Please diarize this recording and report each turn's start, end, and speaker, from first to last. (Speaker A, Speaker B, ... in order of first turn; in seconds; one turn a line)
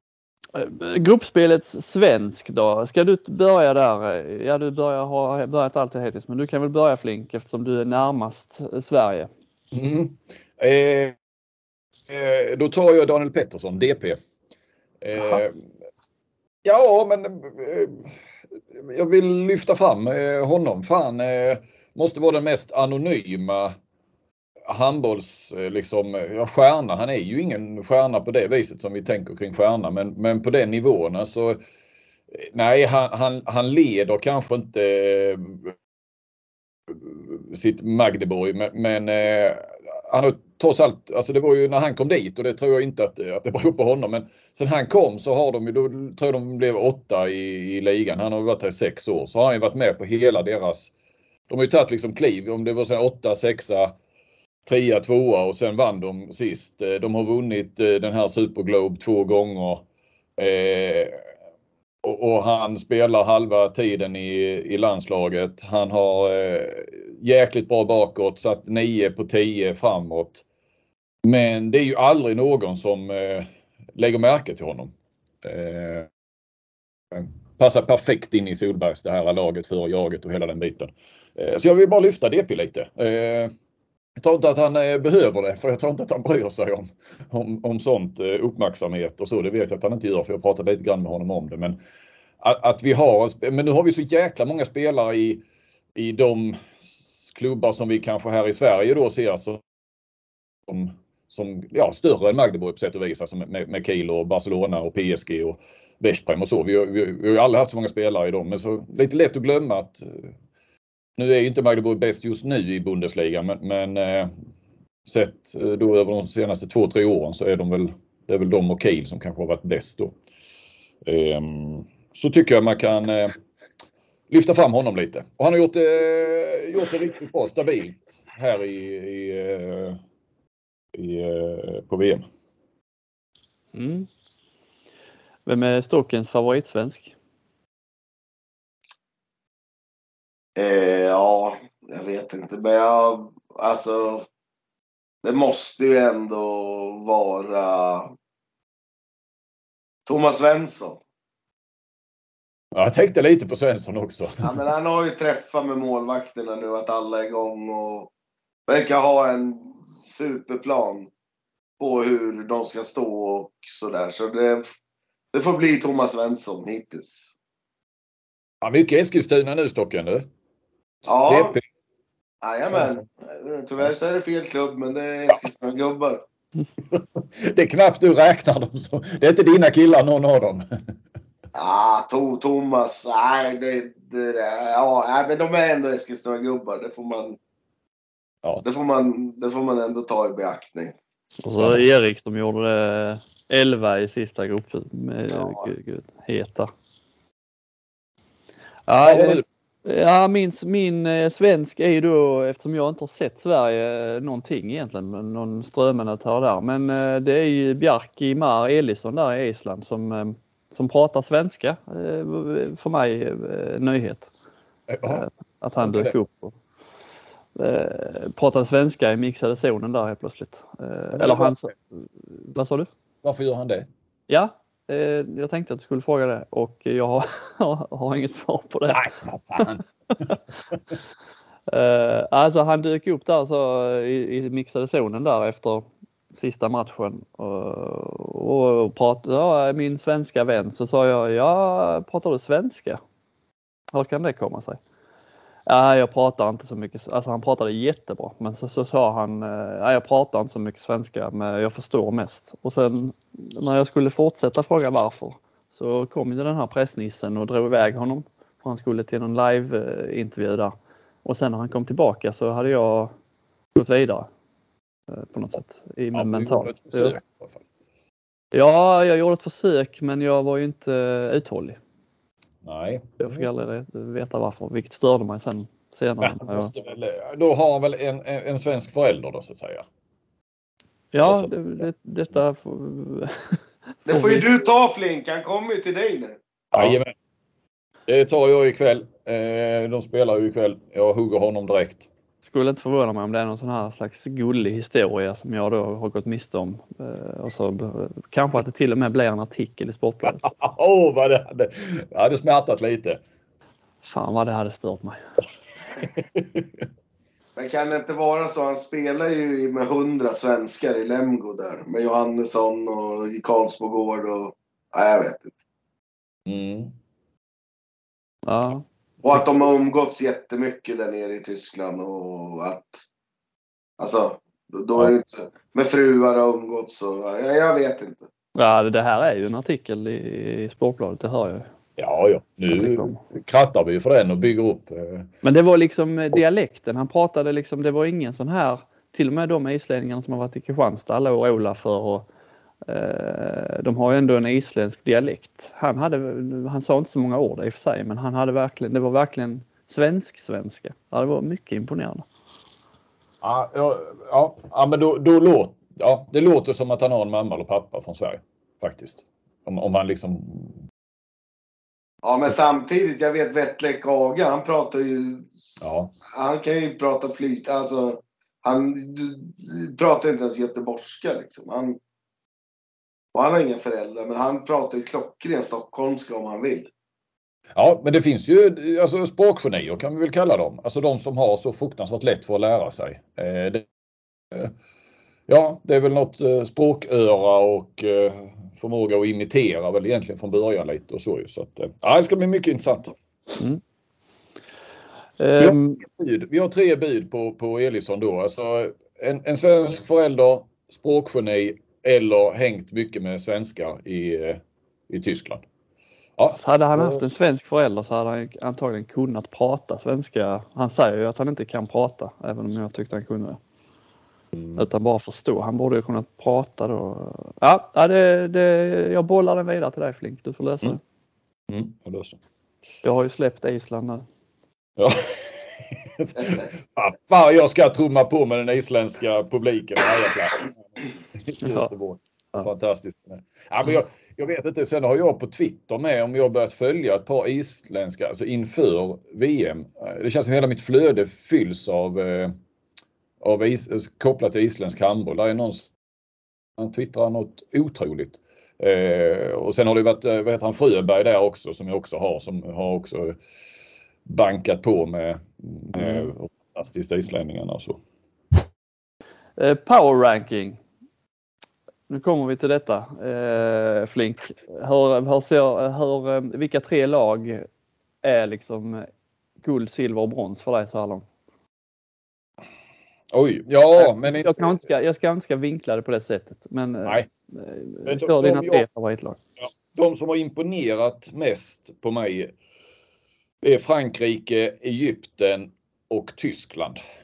Speaker A: 0.5-9.3
Speaker B: 9.7-11.1
Speaker B: 12.1-14.2
Speaker B: 15.0-16.1
Speaker B: 16.6-18.1
Speaker B: 18.7-23.7
Speaker B: 24.7-31.6
Speaker B: 32.3-35.7
Speaker B: 36.9-50.9
Speaker B: 51.5-53.9
Speaker B: 54.6-59.9
Speaker B: 60.4-61.2
Speaker B: 62.0-70.4
Speaker B: 71.2-76.1
Speaker B: 77.1-83.5
Speaker B: 84.2-91.8
Speaker B: 92.4-95.4
Speaker B: 96.0-99.6
Speaker B: 100.7-110.3
Speaker B: 111.2-114.3
Speaker B: 115.1-120.1
Speaker B: 121.0-123.3
Speaker B: 124.3-130.0
Speaker B: 130.9-132.2
Speaker A: 133.7-134.1
Speaker A: 135.4-137.1
Speaker C: 140.6-144.2
Speaker C: 145.2-148.1
Speaker C: 150.1-151.0
Speaker B: 152.7-154.5
Speaker C: 154.4-158.1
Speaker C: 158.7-161.1
Speaker C: 161.8-164.7
Speaker C: 165.3-167.3
Speaker B: 168.6-170.3
Speaker C: 171.1-171.6
Speaker B: 171.3-171.6
Speaker C: 172.4-176.2
Speaker B: 172.7-173.0
Speaker B: 176.9-180.7
Speaker C: 181.5-187.4
Speaker C: 188.6-190.9
Speaker A: 191.4-196.7
Speaker C: 195.3-195.7
Speaker A: 198.9-214.3
Speaker B: 199.0-199.4
Speaker B: 214.9-215.2
Speaker A: 215.1-216.5
Speaker B: 215.8-216.1
Speaker A: 217.6-222.9
Speaker B: 221.1-221.7
Speaker B: 223.2-223.9
Speaker A: 224.3-229.0
Speaker B: 228.9-229.8
Speaker A: 231.7-243.0
Speaker A: 243.9-244.8
Speaker A: 245.7-263.1
Speaker A: 263.7-264.3
Speaker A: 265.1-267.1
Speaker B: 266.1-267.6
Speaker A: 268.5-271.8
Speaker B: 272.6-273.4
Speaker A: 273.2-276.7
Speaker B: 276.2-279.8
Speaker A: 281.1-284.4
Speaker B: 281.2-281.5
Speaker C: 284.1-286.4
Speaker B: 286.7-287.1
Speaker B: 288.1-292.1
Speaker A: 292.4-300.4
Speaker B: 300.2-303.2
Speaker A: 304.0-305.2
Speaker B: 306.0-306.9
Speaker C: 307.6-315.6
Speaker B: 316.4-316.9
Speaker A: 318.4-319.4
Speaker C: 319.2-323.0
Speaker C: 324.0-328.3
Speaker A: 328.6-331.7
Speaker B: 332.0-335.3
Speaker A: 332.7-333.2
Speaker A: 335.4-342.3
Speaker A: 342.9-352.2
Speaker B: 353.4-360.8
Speaker C: 362.2-365.5
Speaker B: 365.8-366.1
Speaker C: 366.3-372.0
Speaker C: 373.3-376.9
Speaker B: 377.7-383.8
Speaker B: 385.5-393.1
Speaker A: 395.4-396.0
Speaker B: 395.6-405.6
Speaker B: 406.4-407.2
Speaker A: 406.5-413.6
Speaker B: 414.6-414.8
Speaker A: 414.8-421.0
Speaker B: 421.7-422.4
Speaker A: 423.0-424.2
Speaker B: 425.0-442.5
Speaker A: 431.6-431.9
Speaker B: 443.4-445.9
Speaker B: 446.8-453.4
Speaker B: 454.2-458.0
Speaker A: 456.0-456.3
Speaker A: 459.6-460.8
Speaker A: 462.1-467.6
Speaker A: 468.2-469.1
Speaker A: 469.6-471.2
Speaker B: 473.3-474.7
Speaker A: 474.0-479.4
Speaker B: 478.1-478.8
Speaker B: 479.6-482.5
Speaker B: 483.6-487.0